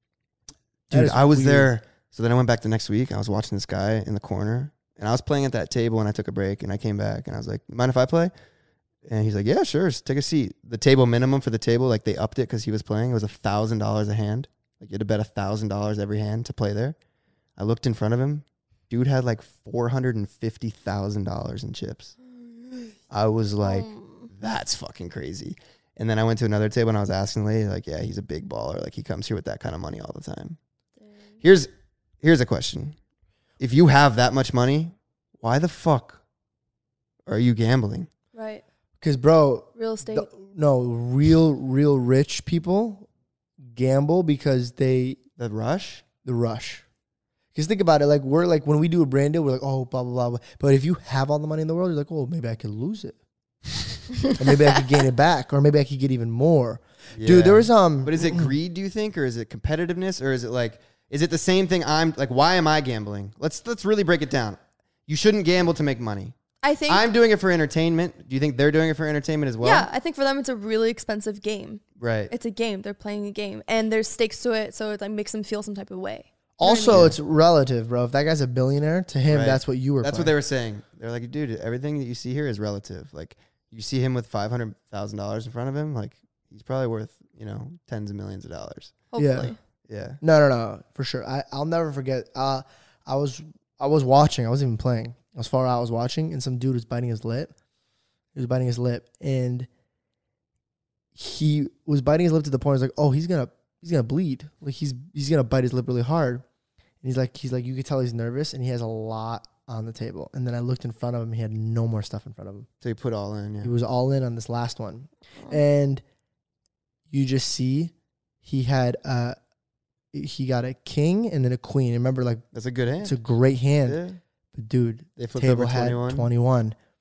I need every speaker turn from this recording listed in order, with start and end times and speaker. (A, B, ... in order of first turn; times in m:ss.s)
0:00.9-0:01.7 A
0:00.9-0:08.3 B
0:09.0-0:17.0 B
0:17.6-0:22.1 B
0:23.1-0:30.6 B
0:23.6-0:24.3 C
0:31.4-0:31.7 B
0:32.2-0:33.0 B
0:33.6-0:36.2 B
0:37.3-0:38.1 B
0:38.3-0:38.6 C
0:39.0-0:43.1 A
0:39.8-0:40.3 C
0:43.7-0:45.2 A
0:45.4-0:46.0 B
0:46.2-0:46.8 A
0:47.5-0:53.2 A
0:54.3-0:58.5 A
0:57.1-1:06.3 B
1:06.6-1:07.0 C
1:06.9-1:09.9 B
1:09.6-1:17.0 C
1:12.0-1:12.3 B
1:16.6-1:20.3 A
1:16.9-1:17.2 B
1:19.3-1:29.0 B
1:29.1-1:29.6 C
1:29.2-1:29.5 A
1:29.9-1:30.2 B
1:30.2-1:37.5 A
1:38.3-1:39.7 A
1:41.1-1:46.4 A
1:47.0-1:52.7 A
1:52.8-1:53.7 B
1:53.6-1:56.0 A
1:57.1-1:57.9 A
1:58.4-1:59.3 A
2:00.1-2:02.4 A
2:02.5-2:03.2 B
2:03.0-2:04.0 A
2:03.8-2:04.2 B
2:04.5-2:06.7 A
2:05.2-2:06.3 B